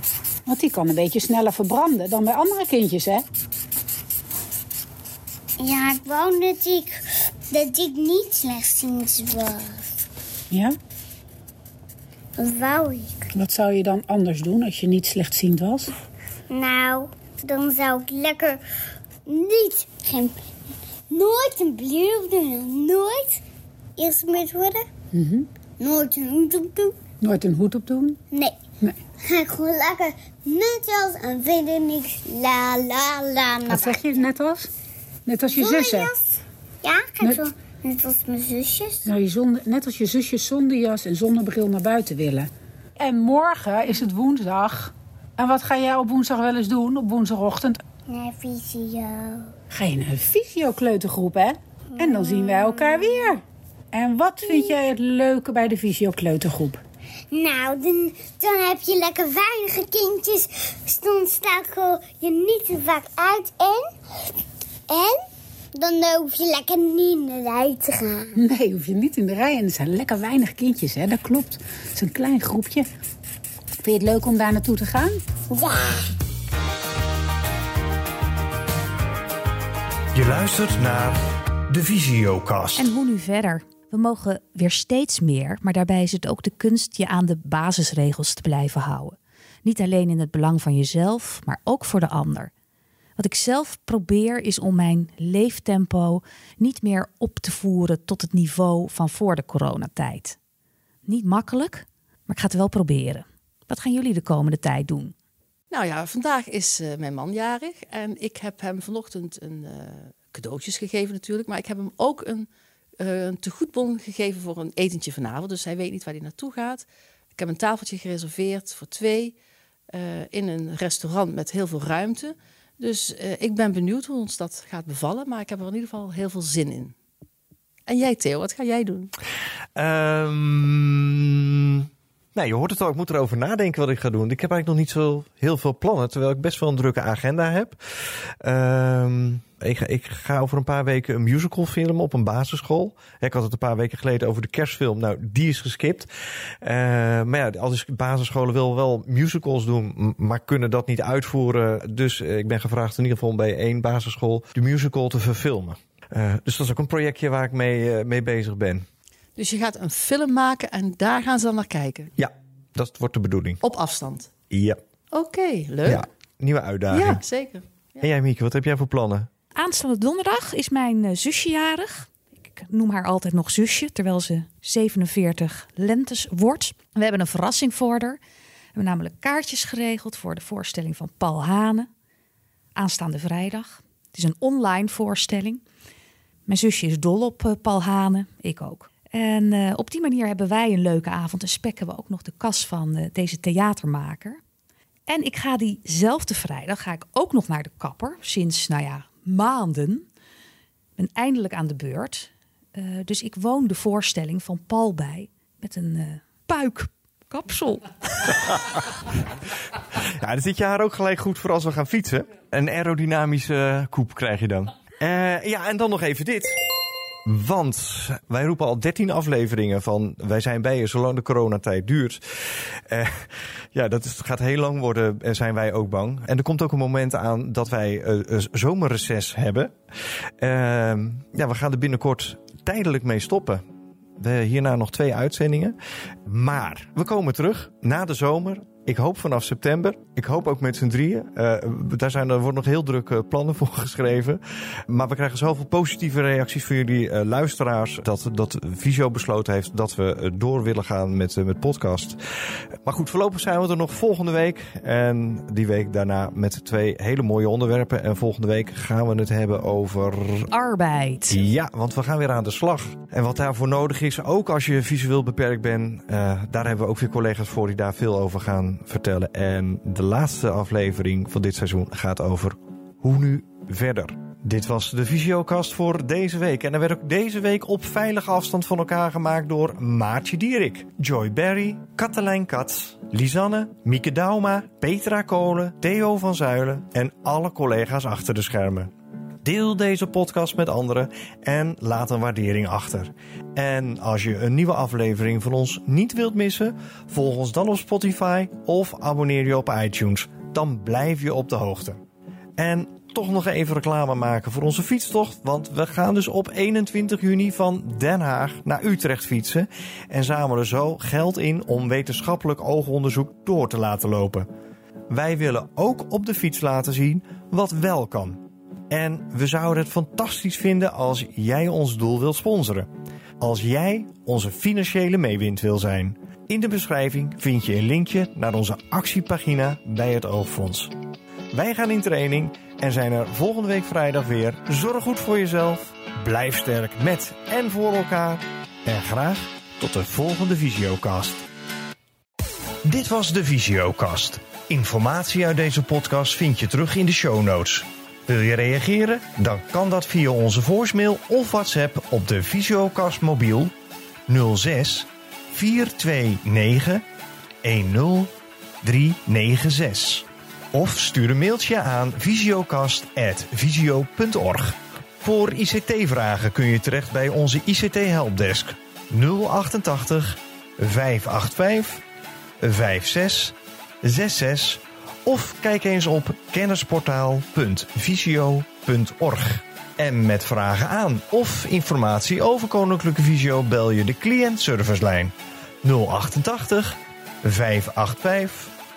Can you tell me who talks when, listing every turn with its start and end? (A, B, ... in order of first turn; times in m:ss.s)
0:00.5-0:03.2 A
0:05.6-0:09.9 B
0:10.5-0:10.8 A
0:12.4-0:13.3 B
0:13.4-0:15.9 A
0:16.5-0:18.6 B
0:19.3-0:20.4 B
0:21.1-0:23.4 B
0:24.0-0:24.9 B
0:25.1-0:25.5 A
0:25.8-0:27.0 B
0:27.2-0:28.2 A
0:29.2-0:34.0 B
0:33.7-0:34.7 A
0:35.3-0:36.1 A
0:35.6-0:39.1 B
0:39.1-0:47.8 A
0:48.1-0:49.5 B
0:49.7-0:53.4 A
0:52.0-0:53.2 B
0:53.9-0:56.8 A
0:54.4-0:54.8 B
0:57.3-1:03.9 B
1:04.9-1:05.2 B
1:05.8-1:08.4 B
1:08.4-1:12.9 A
1:13.8-1:15.2 A
1:15.5-1:16.1 B
1:20.1-1:22.9 C
1:22.8-1:32.5 D
1:33.2-1:40.4 D
1:41.1-1:45.1 D
1:45.7-1:52.5 E
1:53.0-1:59.4 E
1:59.9-2:06.9 E
2:07.9-2:09.1 E
2:09.8-2:17.8 C
2:18.4-2:26.1 C
2:26.6-2:38.8 C
2:39.4-2:42.1 E
2:42.2-2:43.6 C
2:43.6-2:44.3 E
2:44.5-2:44.8 C
2:45.1-2:46.0 E
2:45.8-2:47.2 C
2:46.9-2:48.1 E
2:48.0-2:49.3 C
2:49.6-2:58.2 D
2:58.8-3:01.9 D
3:02.8-3:05.6 D
3:06.5-3:14.4 D
3:15.1-3:20.1 D
3:21.0-3:28.8 D
3:30.2-3:36.6 C
3:37.3-3:49.7 C
3:50.4-3:53.6 C
3:54.2-4:12.2 C
4:12.8-4:20.5 C
4:20.5-4:21.4 D
4:21.3-4:48.9 C
4:49.4-5:02.0 C
5:02.6-5:14.5 C
5:15.1-5:22.9 C
5:23.4-5:30.9 C
5:31.5-5:41.4 C
5:42.8-5:53.7 C
5:54.3-5:57.0 C
5:57.6-6:12.0 C
6:12.6-6:28.7 C